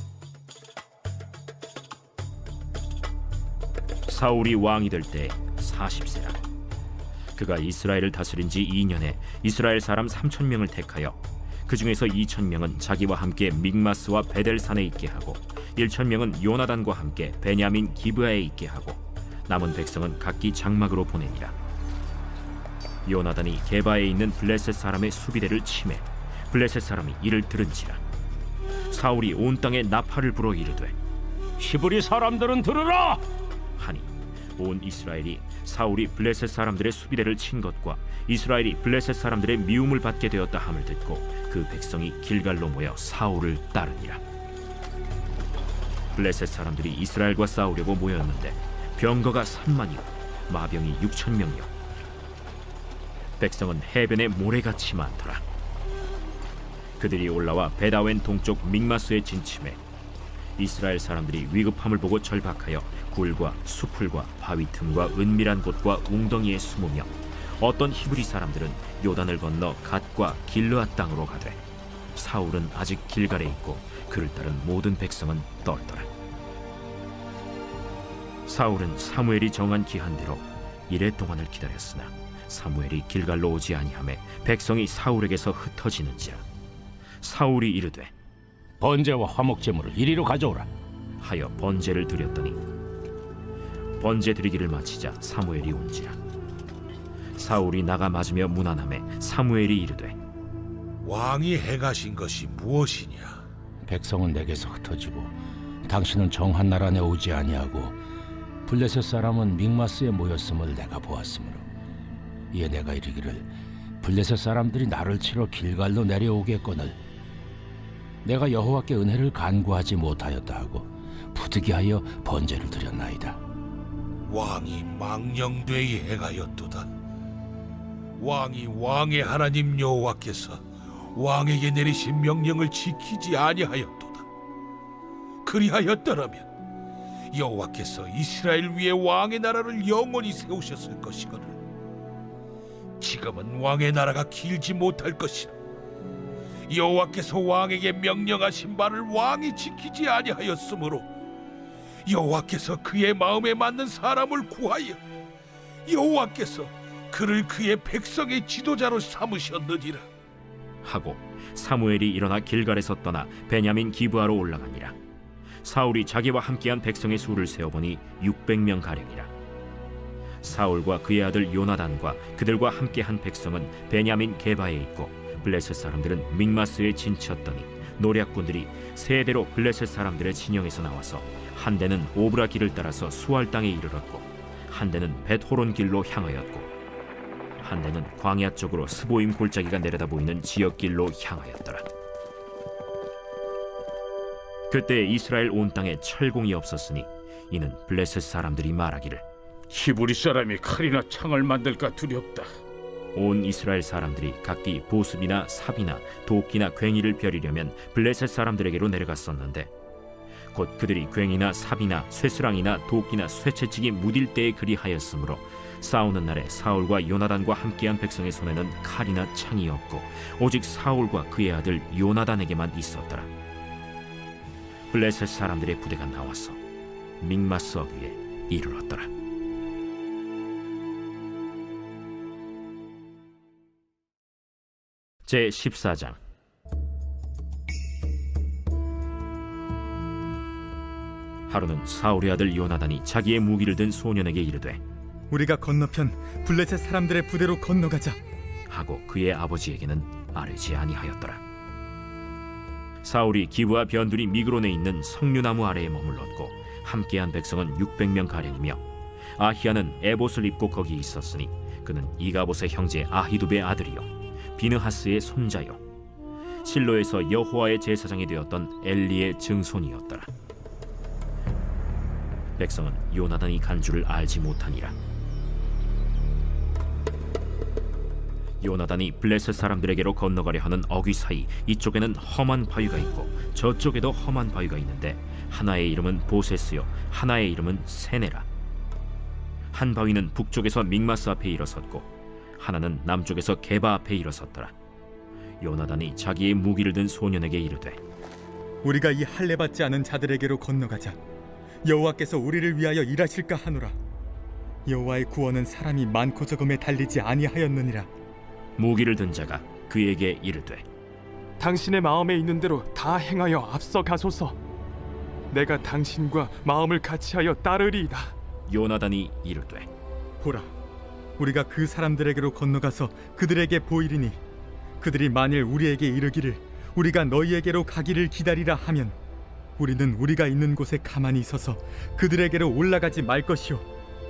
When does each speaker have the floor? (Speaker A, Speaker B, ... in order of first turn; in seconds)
Speaker A: 4.1-6.4, 7.3-21.5, 23.0-28.0, 28.9-30.9, 33.8-44.2, 46.1-51.7, 53.4-55.4, 57.0-59.8, 60.6-71.6, 72.1-76.1, 78.5-86.4, 87.2-88.1, 91.2-92.6, 94.0-96.2, 97.3-100.2, 160.8-164.9, 165.6-169.3, 170.4-186.7, 187.6-191.9, 194.7-199.2, 203.1-209.7, 210.5-223.3, 224.9-226.6, 227.2-229.1, 235.2-236.2, 241.5-244.8, 248.7-251.4, 253.0-258.8, 259.4-265.8, 266.6-270.3, 272.6-274.9, 278.6-288.4, 289.7-292.1, 292.6-294.7, 295.6-298.0, 308.8-310.8, 318.7-319.9
Speaker B: 31.6-33.2, 88.8-90.7, 103.8-108.0, 108.7-111.6, 112.5-113.5, 114.0-117.0, 118.2-123.4
Speaker C: 101.0-103.4, 124.2-126.9, 128.2-134.2, 135.4-136.4, 137.3-141.6, 143.0-145.5, 146.7-151.1, 152.1-155.0, 155.8-160.0
Speaker D: 199.7-202.5
Speaker E: 245.3-248.2, 298.8-301.2, 301.8-303.9, 304.9-308.1, 320.4-320.7, 321.4-324.4, 325.0-329.1, 329.8-333.9
Speaker F: 311.6-314.6, 315.5-318.3